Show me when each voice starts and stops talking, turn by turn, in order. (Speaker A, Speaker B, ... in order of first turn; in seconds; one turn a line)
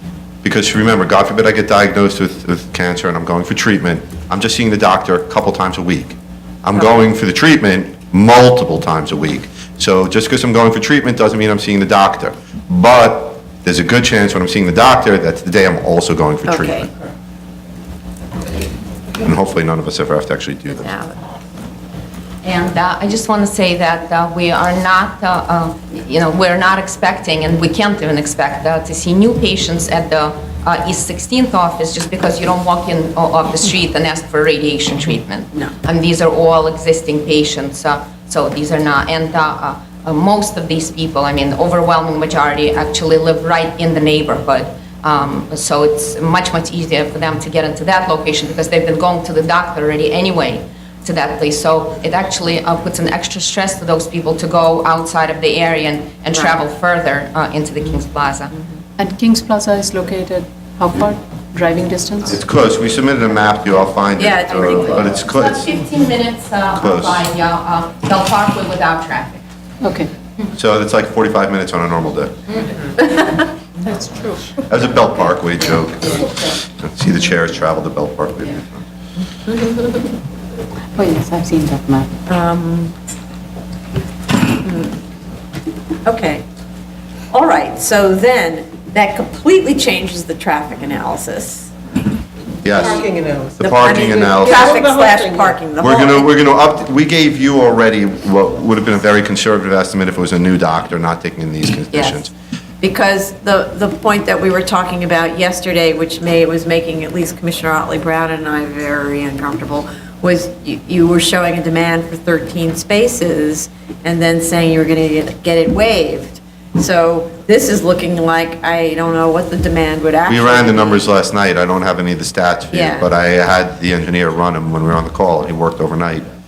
Speaker A: 0.4-16.9
Speaker B: 16.5-16.9
Speaker A: 19.2-20.9
Speaker B: 20.8-21.2
Speaker C: 22.4-58.5
Speaker D: 59.0-62.4
Speaker A: 62.3-65.7
Speaker B: 64.2-65.2
Speaker C: 65.1-69.4
Speaker A: 66.8-67.2
Speaker D: 69.8-70.1
Speaker A: 70.5-72.3
Speaker D: 73.9-74.5
Speaker A: 74.7-78.8
Speaker B: 79.5-80.1
Speaker D: 81.0-82.1
Speaker B: 82.3-82.9
Speaker B: 84.6-85.0
Speaker B: 86.0-86.5
Speaker B: 87.3-91.7
Speaker A: 92.6-93.0
Speaker E: 92.7-95.6
Speaker A: 93.6-94.7
Speaker B: 93.7-96.3
Speaker A: 95.8-102.3
Speaker B: 101.9-102.3
Speaker B: 102.8-121.1
Speaker A: 120.2-126.3
Speaker B: 122.7-123.1